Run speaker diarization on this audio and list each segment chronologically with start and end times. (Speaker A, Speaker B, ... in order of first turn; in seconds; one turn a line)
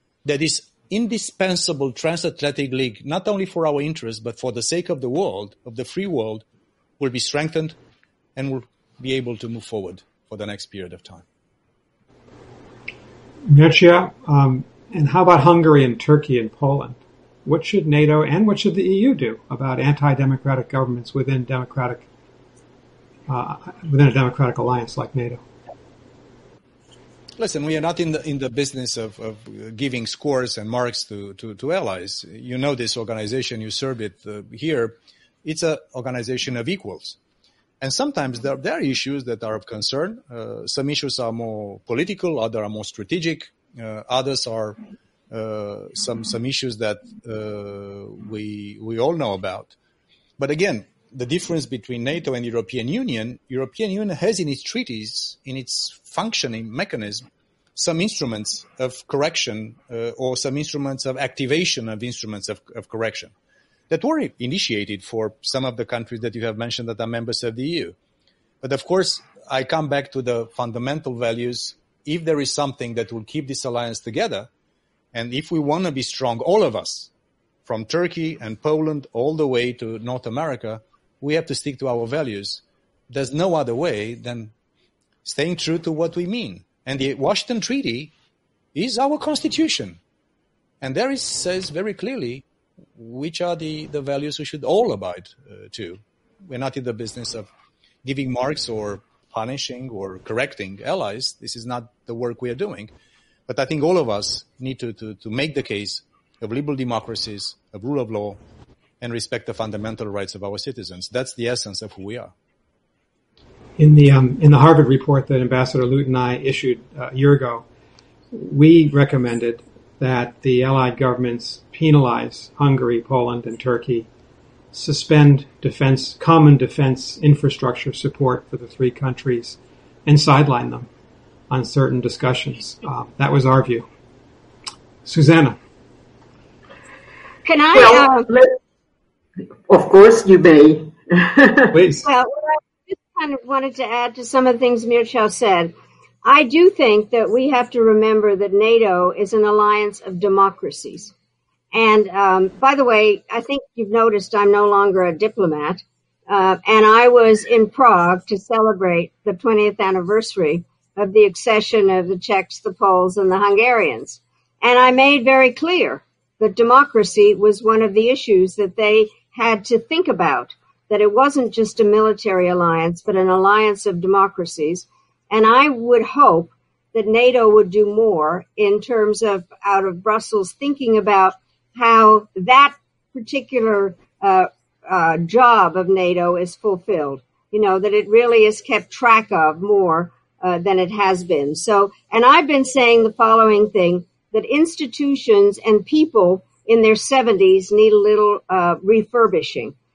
Speaker A: 0.2-6.4
Speaker A: 7.0-7.8
Speaker A: 8.3-11.2
Speaker B: 13.4-22.0
Speaker B: 23.3-25.4
Speaker A: 27.4-37.2
Speaker A: 37.8-44.8
Speaker A: 45.3-49.7
Speaker A: 50.4-63.3
Speaker A: 63.9-67.9
Speaker A: 68.6-74.5
Speaker A: 75.1-77.1
Speaker A: 77.6-84.5
Speaker A: 85.2-88.1
Speaker A: 88.7-90.0
Speaker A: 90.8-92.4
Speaker A: 93.0-97.5
Speaker A: 98.0-102.9
Speaker A: 103.5-108.4
Speaker A: 109.0-112.3
Speaker B: 113.8-117.6
Speaker B: 118.3-124.1
Speaker B: 124.7-130.9
Speaker B: 131.5-133.8
Speaker B: 135.0-135.6
Speaker C: 137.4-138.3
Speaker D: 137.7-138.5
Speaker D: 139.7-141.8
Speaker B: 141.7-142.0
Speaker C: 142.0-145.7
Speaker C: 146.2-151.1
Speaker C: 151.7-199.7